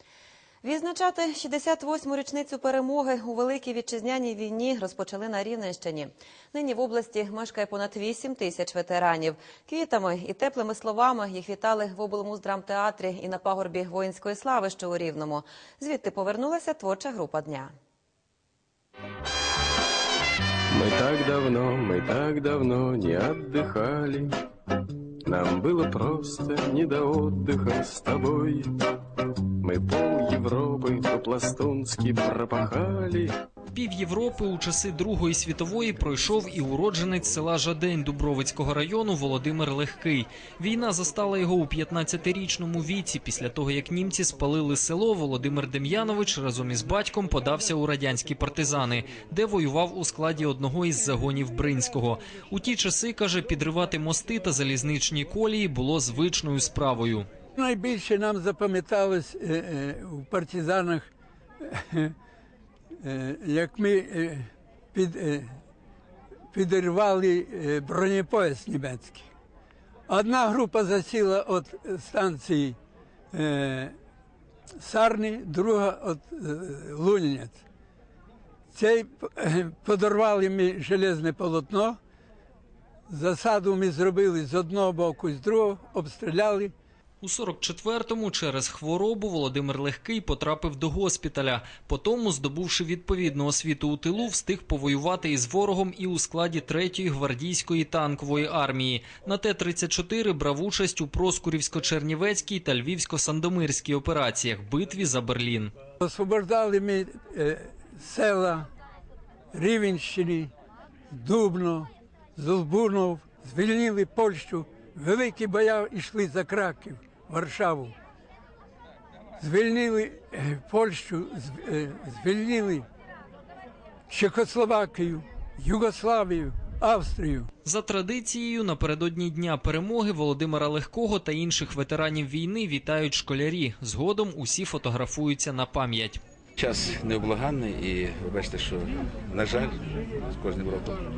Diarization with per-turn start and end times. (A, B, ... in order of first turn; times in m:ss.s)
0:00.6-0:17.7 A
0:20.7-0:24.3 B
0:25.3-0:28.7 B
0:29.6-0:33.3 B
0:33.7-0:57.3 C
0:57.6-1:01.1 D
1:01.6-1:02.2 D
1:03.0-1:05.6 D
1:06.5-1:09.3 D
1:10.1-1:12.8 D
1:13.3-1:14.0 D
1:14.8-1:17.6 D
1:18.7-1:22.0 D
1:23.1-1:26.7 D
1:27.2-1:45.7 C
1:46.0-1:48.7 D
1:49.5-1:50.5 D
1:51.1-1:58.0 D
1:59.4-2:02.9 D
2:04.1-2:07.5 D
2:07.6-2:16.2 C
2:16.7-2:18.8 E
2:19.3-2:19.7 E
2:20.4-2:21.0 E